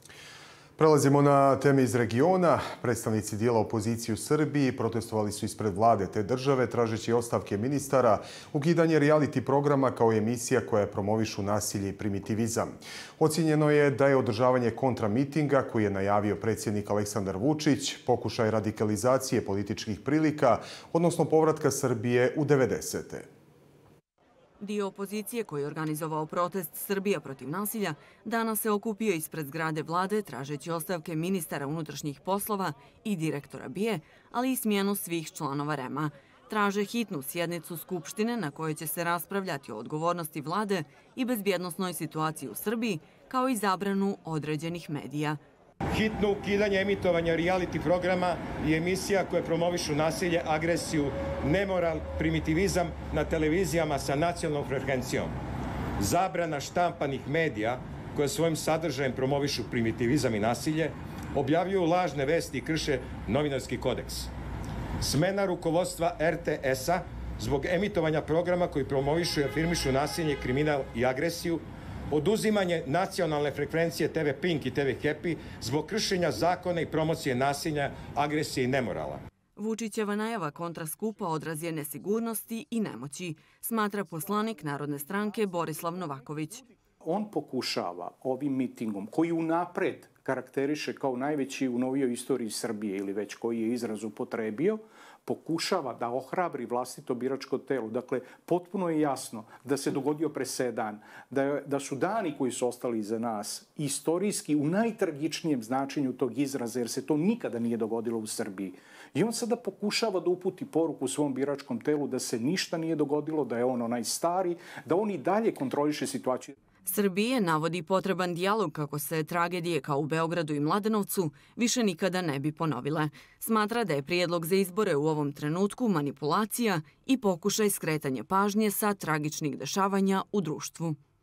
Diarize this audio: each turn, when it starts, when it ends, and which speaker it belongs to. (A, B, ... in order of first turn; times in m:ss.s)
0:00.8-0:23.3 A
0:24.6-0:45.4 B
0:45.9-0:55.4 C
0:56.0-1:04.3 C
1:05.0-1:19.2 C
1:19.6-1:26.6 B
1:27.0-1:56.5 D
1:56.8-2:11.0 B